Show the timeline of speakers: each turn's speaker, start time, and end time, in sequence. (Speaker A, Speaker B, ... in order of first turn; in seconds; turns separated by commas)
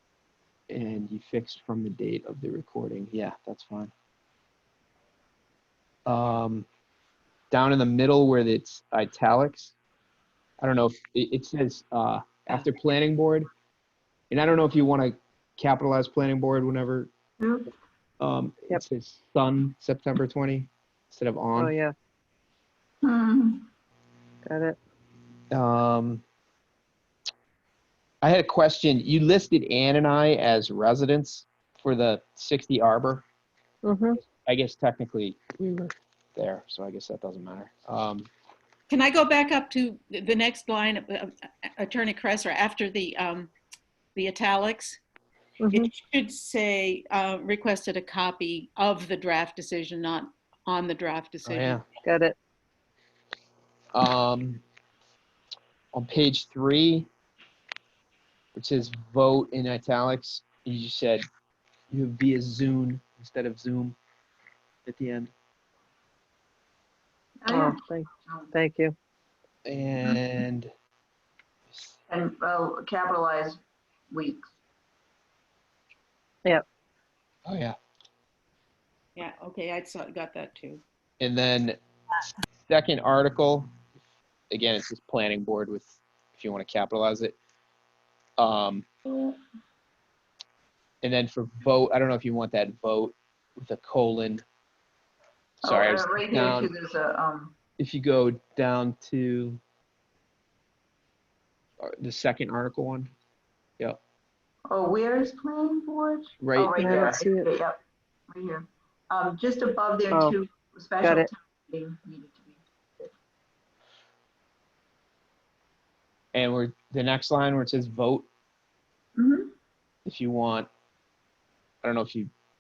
Speaker A: 0.7-3.9, Speaker A: 6.1-6.7, Speaker A: 7.5-9.7, Speaker A: 10.6-13.5, Speaker A: 14.3-17.1, Speaker B: 17.4-17.7, Speaker A: 18.2-21.7, Speaker C: 21.6-21.9, Speaker B: 23.0-23.6, Speaker C: 24.5-24.8, Speaker A: 25.5-26.2, Speaker A: 28.2-33.2, Speaker C: 33.8-34.2, Speaker A: 34.2-38.3, Speaker D: 38.9-43.5, Speaker D: 44.2-45.0, Speaker C: 45.6-45.9, Speaker D: 45.7-51.8, Speaker A: 51.5-51.8, Speaker C: 52.1-52.4, Speaker A: 53.9-54.6, Speaker A: 55.9-57.1, Speaker A: 58.5-61.3, Speaker A: 61.9-64.0, Speaker A: 64.9-65.3, Speaker B: 67.4-68.5, Speaker C: 67.5-69.0, Speaker A: 69.7-70.7, Speaker B: 72.1-74.5, Speaker A: 77.5-77.8, Speaker D: 79.2-80.8, Speaker A: 81.2-81.8, Speaker A: 82.7-83.7, Speaker A: 84.5-87.3, Speaker A: 88.4-88.9, Speaker A: 91.0-94.5, Speaker B: 95.6-97.5, Speaker A: 95.6-96.7, Speaker A: 97.8-99.6, Speaker A: 101.8-103.1, Speaker B: 104.7-107.8, Speaker A: 106.4-107.2, Speaker C: 106.8-107.5, Speaker B: 108.3-113.1, Speaker C: 111.0-111.3, Speaker A: 116.3-118.3, Speaker B: 119.2-119.5, Speaker A: 120.1-120.7, Speaker A: 121.8-122.3